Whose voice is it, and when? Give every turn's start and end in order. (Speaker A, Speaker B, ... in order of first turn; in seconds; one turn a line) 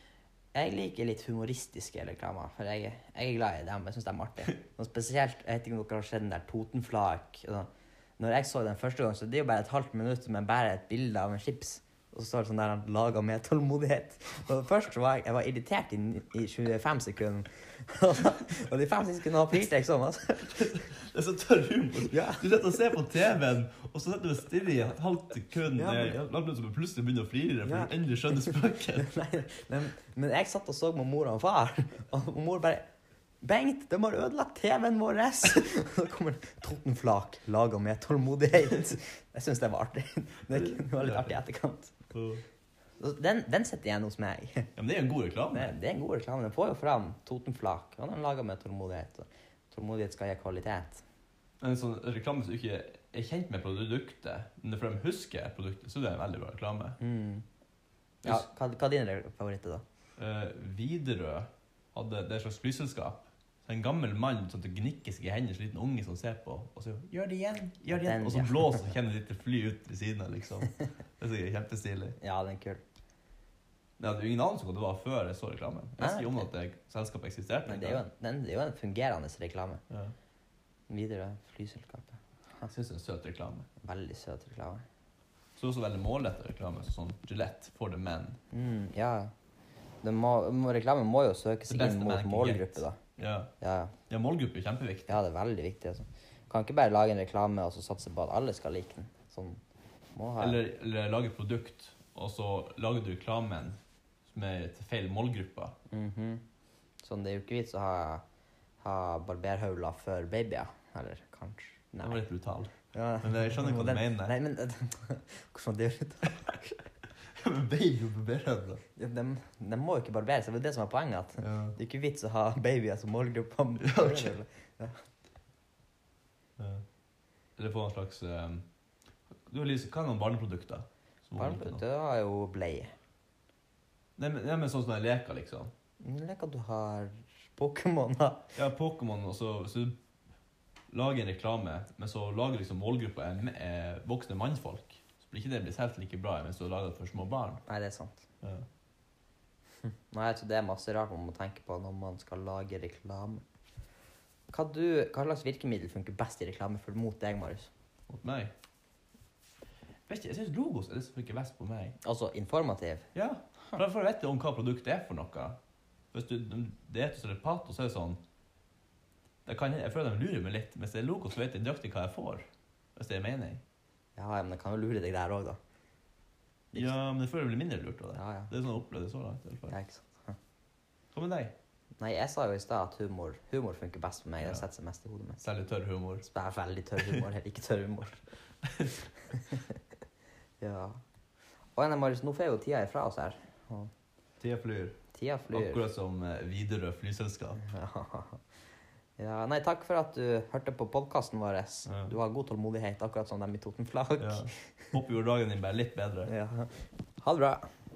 Speaker A: 0.5-20.9
Speaker B: 20.6-29.1
Speaker A: 22.1-22.8
Speaker A: 25.8-26.2
Speaker A: 27.6-32.9
Speaker A: 33.4-41.9
Speaker B: 40.5-41.4
Speaker B: 42.1-42.4
Speaker A: 43.0-44.7
Speaker B: 44.8-45.7
Speaker A: 45.5-51.0
Speaker B: 51.6-57.0
Speaker A: 57.0-57.5
Speaker A: 58.2-59.8
Speaker B: 60.2-72.2
Speaker A: 67.9-69.0
Speaker A: 72.2-72.8
Speaker B: 74.0-78.0
Speaker A: 76.0-76.5
Speaker A: 77.7-79.8
Speaker B: 79.9-80.1
Speaker A: 80.9-82.7
Speaker B: 82.6-83.7
Speaker A: 83.8-84.8
Speaker B: 85.5-88.4
Speaker A: 88.5-89.3
Speaker A: 90.0-93.0
Speaker B: 91.7-93.5
Speaker A: 93.6-94.0
Speaker B: 94.1-95.2
Speaker A: 95.1-99.6
Speaker A: 100.1-100.6
Speaker B: 100.4-105.7
Speaker A: 105.9-106.4
Speaker A: 107.0-108.2
Speaker A: 108.8-112.2
Speaker B: 112.0-114.3
Speaker A: 112.9-116.8
Speaker B: 117.2-118.8
Speaker A: 119.0-125.0
Speaker B: 121.4-121.8
Speaker B: 123.8-124.3
Speaker B: 126.6-126.8
Speaker B: 127.6-128.7
Speaker B: 129.4-131.8
Speaker A: 131.4-132.9
Speaker B: 134.2-135.7
Speaker A: 136.0-138.5
Speaker B: 138.5-140.0
Speaker B: 140.9-147.6
Speaker A: 147.7-148.2
Speaker A: 150.1-153.4
Speaker A: 154.5-157.7
Speaker B: 158.1-158.5
Speaker B: 160.1-162.0
Speaker A: 162.0-163.1
Speaker B: 163.1-165.6
Speaker B: 166.1-168.2
Speaker B: 169.4-173.6
Speaker A: 174.2-175.6
Speaker B: 176.7-179.7
Speaker A: 178.1-178.5
Speaker A: 179.7-180.4
Speaker B: 181.1-181.5
Speaker A: 182.0-185.4
Speaker B: 184.4-184.6
Speaker B: 185.4-186.2
Speaker A: 186.2-188.2
Speaker B: 187.0-187.2
Speaker B: 188.6-189.0
Speaker A: 189.3-189.7
Speaker A: 190.6-191.0
Speaker A: 191.8-193.9
Speaker B: 194.4-195.0
Speaker A: 195.1-195.9
Speaker B: 195.5-197.6
Speaker A: 197.6-198.4
Speaker A: 199.2-204.9
Speaker B: 201.8-202.1
Speaker B: 204.2-206.3
Speaker A: 206.3-207.7